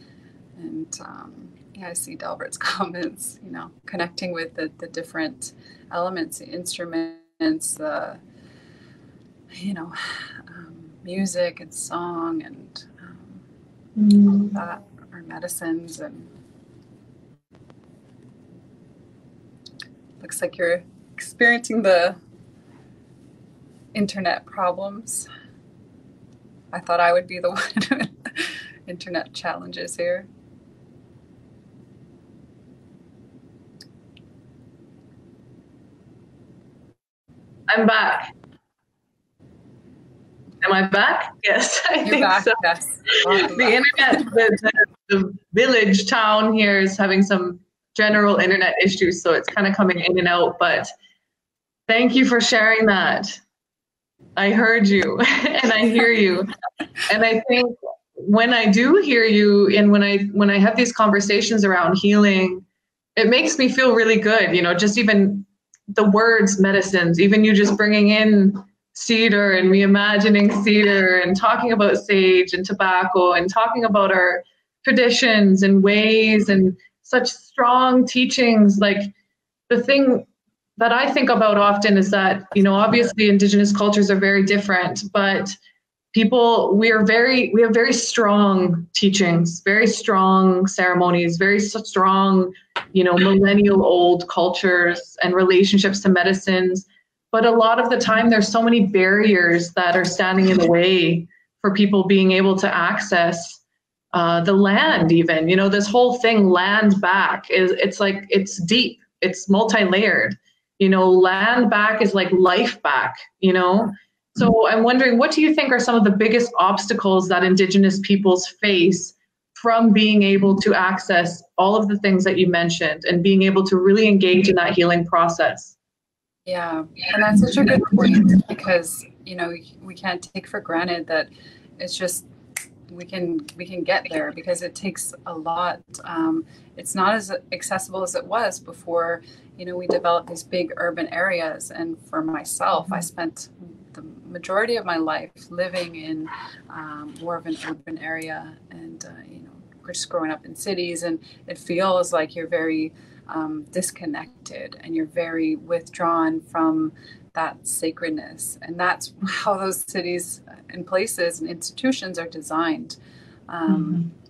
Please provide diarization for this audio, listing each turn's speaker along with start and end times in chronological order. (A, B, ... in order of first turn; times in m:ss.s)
0:00.6-0:08.2 A
0:09.5-0:13.4 A
0:14.0-0:14.6 B
0:14.5-0:16.3 A
0:20.2-0:22.2 A
0:23.9-0:25.3 A
0:26.7-0:30.3 A
0:37.7-0:38.3 B
0:40.6-0:42.6 B
0:42.0-0:44.2 A
0:43.2-0:50.9 B
0:51.9-0:53.4 B
0:54.4-0:56.5 B
0:57.1-1:02.6 B
1:03.2-1:19.1 B
1:19.7-1:20.3 B
1:20.8-1:25.6 B
1:26.1-1:43.6 B
1:44.1-2:05.8 B
2:06.5-2:12.3 A
2:07.3-2:08.3 B
2:12.9-2:43.0 A
2:43.5-2:44.1 A
2:43.7-2:44.1 B